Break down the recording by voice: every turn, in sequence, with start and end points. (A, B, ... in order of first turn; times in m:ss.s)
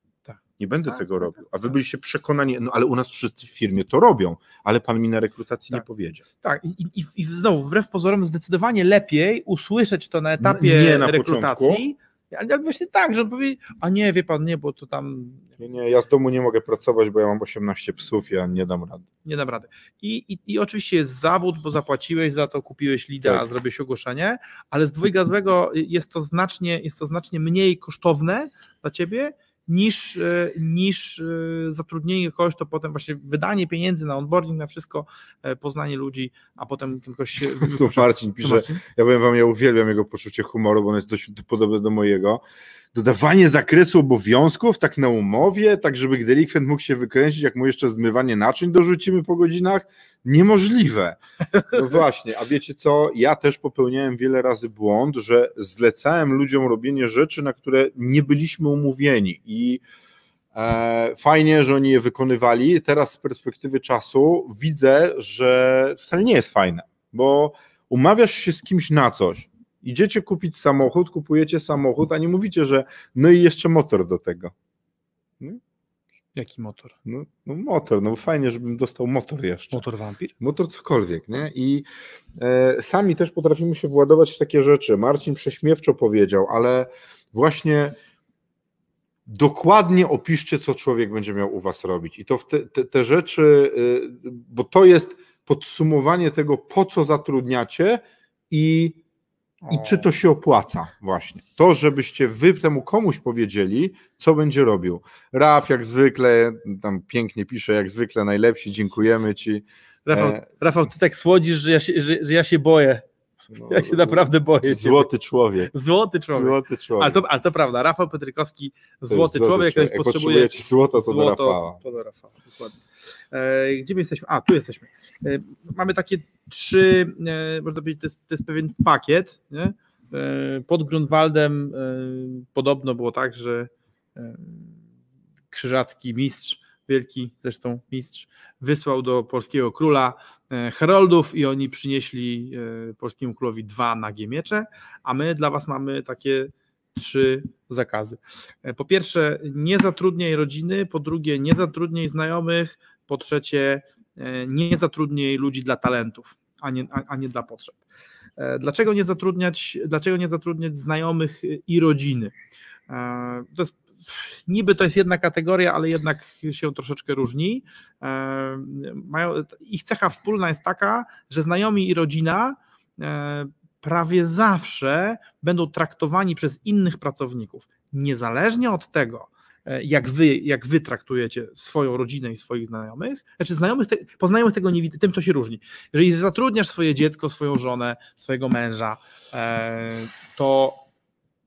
0:00.6-0:06.2 A
0:06.4-0:15.6 B
0:10.4-0:11.8 A
0:15.6-0:19.0 A
0:19.2-0:38.8 B
0:37.5-0:42.4 A
0:42.9-0:59.8 A
1:00.5-1:14.5 A
1:16.3-1:17.0 B
1:17.0-1:19.8 A
1:19.7-1:20.3 B
1:20.4-1:21.8 A
1:22.4-1:27.9 A
1:29.3-1:39.0 A
1:39.7-1:50.4 A
1:39.7-1:40.0 B
1:50.0-1:53.0 B
1:53.5-1:55.7 A
1:53.6-1:55.1 B
1:55.7-2:02.8 B
1:56.3-1:57.2 A
1:59.1-2:01.8 A
2:03.3-2:14.8 B
2:15.5-2:37.8 B
2:38.4-2:42.3 B
2:42.9-3:10.8 B